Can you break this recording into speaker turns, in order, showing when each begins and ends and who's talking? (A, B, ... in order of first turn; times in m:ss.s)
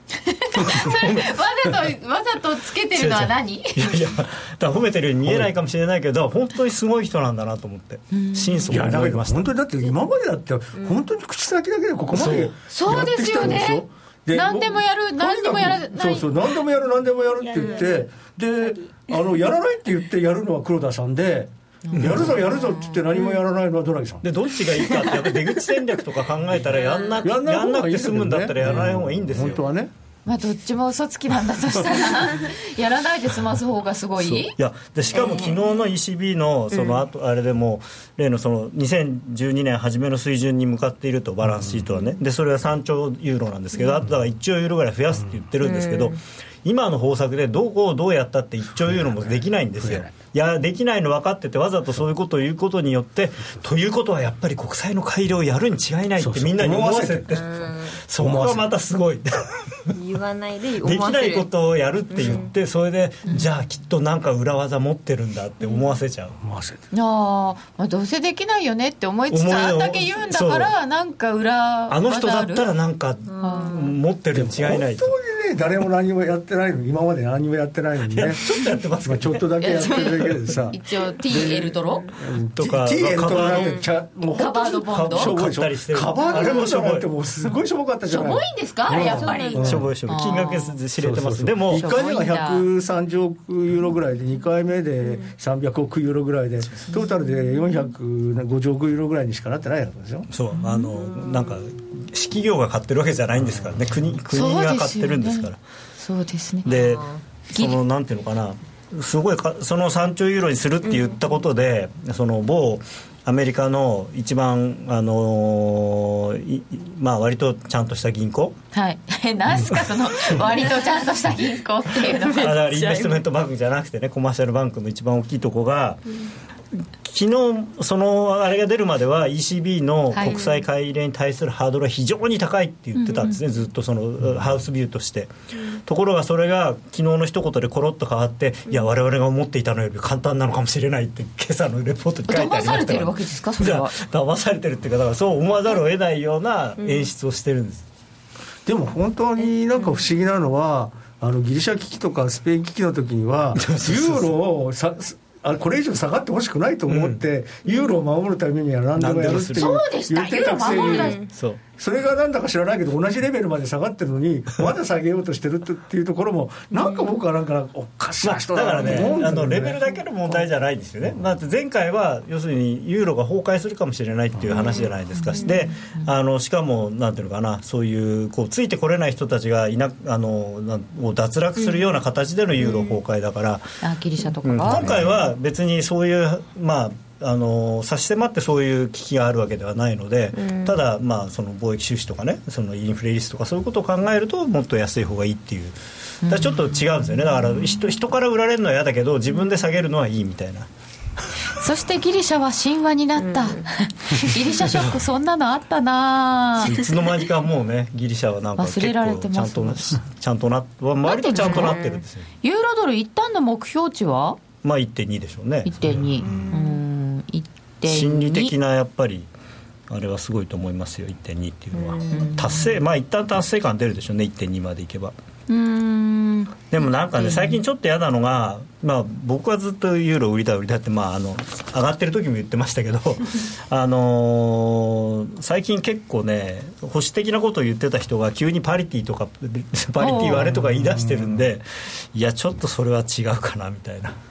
0:00.2-0:04.1 A
0:00.6-0:01.3 B
0:02.9-0:09.5 B
0:05.2-0:05.5 C
0:08.1-0:08.8 A
0:08.7-0:24.2 C
0:10.8-0:11.0 D
0:12.2-0:12.5 B
0:12.6-0:16.4 A
0:17.4-0:18.1 D
0:18.6-0:19.2 D
0:21.8-0:23.0 A
0:22.0-0:22.3 B
0:24.2-0:29.7 B
0:24.7-0:25.3 D
0:26.7-0:27.2 D
0:27.2-0:29.9 C
0:30.2-0:34.5 A
0:34.2-0:59.9 B
0:35.1-0:35.9 D
0:36.7-0:37.0 D
0:41.4-0:41.9 C
0:45.6-0:46.2 D
0:48.8-0:50.1 C
0:56.2-0:57.4 C
0:57.3-0:57.9 D
0:58.2-0:58.7 C
0:59.9-1:01.5 D
1:00.8-1:06.4 B
1:02.1-1:02.5 D
1:05.6-1:05.9 D
1:06.4-1:06.8 C
1:06.9-1:12.7 A
1:09.3-1:10.7 B
1:11.9-1:15.1 B
1:13.3-1:14.0 D
1:13.4-1:13.9 A
1:14.3-1:18.4 C
1:18.1-1:19.4 B
1:19.0-1:29.9 C
1:19.6-1:22.1 A
1:22.6-1:23.8 B
1:24.3-1:25.4 A
1:24.7-1:27.1 B
1:28.1-1:30.8 A
1:29.0-1:29.8 D
1:29.6-1:31.9 B
1:31.0-1:40.3 C
1:31.7-1:32.7 A
1:40.3-1:45.6 B
1:40.6-1:40.9 A
1:44.3-1:45.5 A
1:46.0-1:46.7 A
1:46.6-1:58.6 B
1:46.7-1:47.2 D
1:50.8-1:51.2 D
1:58.7-2:02.6 A
2:02.1-2:03.2 D
2:02.4-2:06.2 B
2:06.7-2:15.3 B
2:10.1-2:10.4 A
2:10.2-2:10.6 D
2:13.0-2:13.4 A
2:15.8-2:27.8 B
2:22.3-2:24.0 A
2:26.8-2:27.1 D
2:28.6-2:41.2 C
2:33.6-2:34.3 B
2:36.9-2:37.2 B
2:39.0-2:39.8 B
2:39.5-2:41.2 A
2:40.8-2:41.3 D
2:41.3-2:41.6 B
2:41.8-2:50.4 C
2:46.7-2:47.2 D
2:48.2-3:03.6 B
2:54.4-2:54.7 C
2:54.5-2:55.6 D
2:55.1-2:56.1 A
3:01.6-3:02.0 D
3:02.6-3:03.0 D
3:03.8-3:05.0 A
3:04.4-3:20.7 B
3:10.3-3:10.8 D
3:16.2-3:16.6 A
3:21.5-3:26.7 A
3:23.2-3:23.7 D
3:24.6-3:25.0 B
3:26.6-3:32.2 B
3:28.6-3:30.0 A
3:31.0-3:31.8 A
3:31.4-3:32.0 D
3:32.4-3:34.4 A
3:34.6-3:36.5 B
3:35.6-3:38.5 A
3:36.2-3:36.8 D
3:37.8-3:39.3 B
3:39.9-3:45.1 B
3:41.7-3:42.2 D
3:42.1-3:42.7 A
3:45.5-3:46.6 A
3:46.7-4:04.2 B
3:47.1-3:47.6 A
4:00.0-4:00.5 A
4:00.4-4:01.4 C